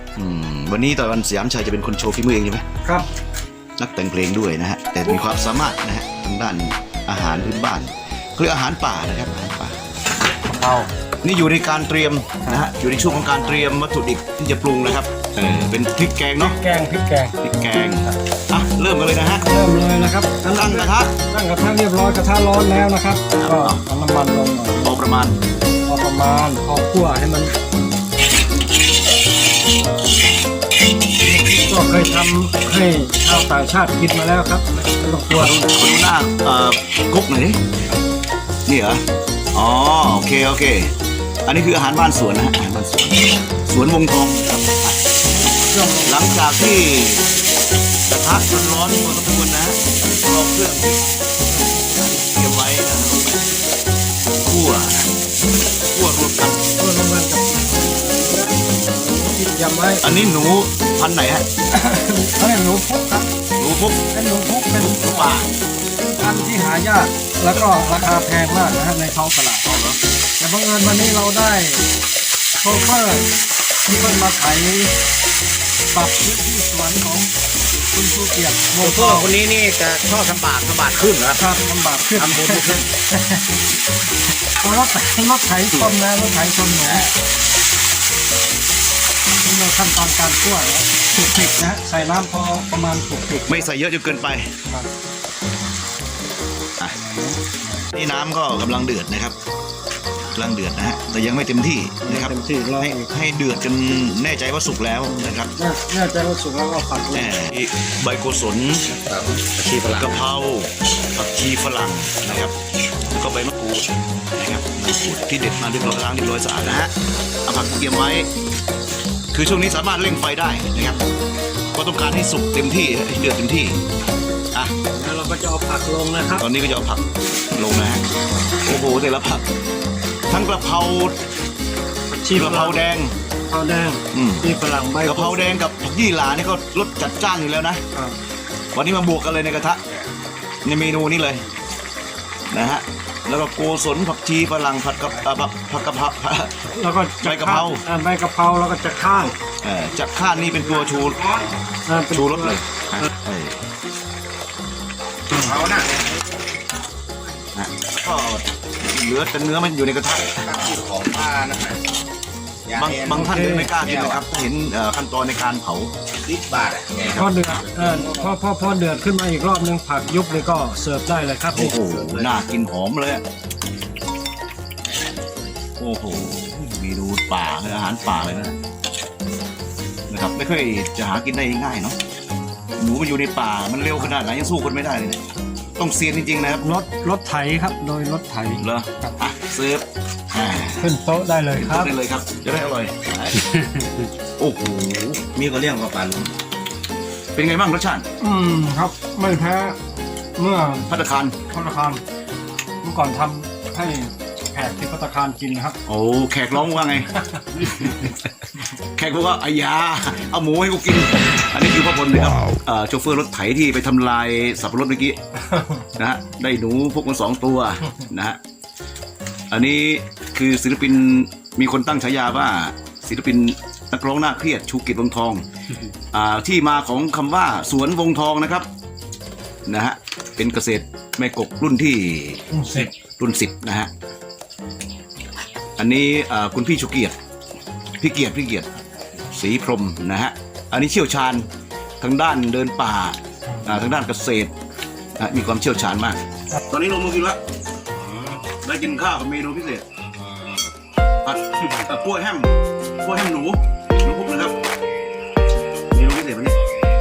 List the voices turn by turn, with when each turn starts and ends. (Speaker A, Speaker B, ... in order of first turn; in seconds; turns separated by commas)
Speaker A: 0.2-2.6, Speaker A: 3.8-9.8, Speaker B: 10.4-10.9, Speaker A: 11.2-16.6, Speaker B: 12.4-13.6, Speaker B: 16.4-17.4, Speaker A: 17.4-19.5, Speaker B: 19.4-25.0, Speaker A: 20.5-21.1, Speaker A: 23.4-23.8, Speaker A: 24.8-25.4, Speaker B: 25.8-27.6, Speaker B: 31.2-35.7, Speaker A: 35.3-37.6, Speaker A: 38.7-40.9, Speaker A: 41.5-45.0, Speaker B: 45.5-46.4, Speaker A: 46.1-47.3, Speaker A: 48.1-53.6, Speaker A: 54.4-55.1, Speaker A: 55.9-56.6, Speaker B: 56.8-60.1, Speaker A: 60.0-61.5, Speaker B: 61.7-63.3, Speaker A: 63.6-64.0, Speaker B: 64.1-65.4, Speaker A: 64.8-65.6, Speaker B: 66.1-69.7, Speaker A: 69.7-70.0, Speaker B: 70.4-71.8, Speaker B: 72.6-73.3, Speaker B: 73.9-74.9, Speaker B: 75.9-77.3, Speaker B: 77.9-79.3, Speaker C: 78.8-81.4, Speaker B: 81.4-83.5, Speaker A: 82.2-82.9, Speaker B: 84.6-87.1, Speaker C: 86.8-87.1, Speaker B: 89.4-93.7, Speaker A: 93.5-94.5, Speaker B: 96.9-97.8, Speaker A: 97.9-99.4, Speaker A: 100.3-105.5, Speaker B: 102.0-103.1, Speaker B: 105.3-107.4, Speaker A: 107.1-108.9, Speaker C: 108.9-110.2, Speaker A: 109.9-112.5, Speaker A: 113.1-116.9, Speaker A: 117.5-118.3, Speaker A: 119.3-121.0, Speaker A: 121.7-123.8, Speaker B: 124.9-126.5, Speaker A: 126.4-127.0, Speaker A: 127.5-128.0, Speaker A: 128.6-129.4, Speaker A: 130.3-131.2, Speaker B: 132.1-132.9, Speaker A: 132.3-133.2, Speaker B: 133.5-135.5, Speaker A: 134.1-134.5, Speaker A: 135.0-137.8, Speaker A: 138.7-139.8, Speaker A: 140.6-141.4, Speaker A: 142.5-146.7, Speaker B: 146.7-149.3, Speaker A: 147.2-147.8, Speaker A: 149.6-151.2, Speaker B: 151.8-152.6, Speaker A: 152.1-153.6, Speaker C: 155.4-156.1, Speaker A: 157.6-160.6, Speaker C: 160.5-161.8, Speaker C: 162.7-164.2, Speaker A: 162.8-165.9, Speaker B: 163.1-163.7, Speaker C: 166.2-168.3, Speaker B: 167.2-172.3, Speaker A: 171.5-173.2, Speaker C: 174.9-175.4, Speaker A: 175.8-178.6, Speaker A: 180.1-182.0, Speaker A: 182.8-185.2, Speaker A: 185.8-186.7, Speaker B: 186.6-189.1, Speaker A: 188.6-190.9, Speaker B: 190.8-191.9, Speaker A: 191.5-193.5, Speaker A: 194.4-195.6, Speaker C: 195.4-196.3, Speaker A: 197.3-198.1, Speaker B: 198.2-199.8, Speaker B: 200.4-200.9, Speaker A: 200.9-201.4, Speaker B: 201.5-202.0, Speaker B: 202.8-205.8, Speaker A: 205.9-208.2, Speaker B: 207.6-207.9, Speaker A: 209.0-215.2, Speaker A: 215.8-218.4, Speaker A: 219.5-225.5, Speaker A: 226.1-228.7, Speaker A: 229.7-233.9, Speaker B: 232.5-232.9, Speaker A: 235.8-237.2, Speaker A: 238.0-241.5, Speaker A: 242.0-244.5, Speaker A: 245.2-247.4, Speaker A: 248.3-249.8, Speaker A: 251.2-254.6, Speaker A: 255.9-256.6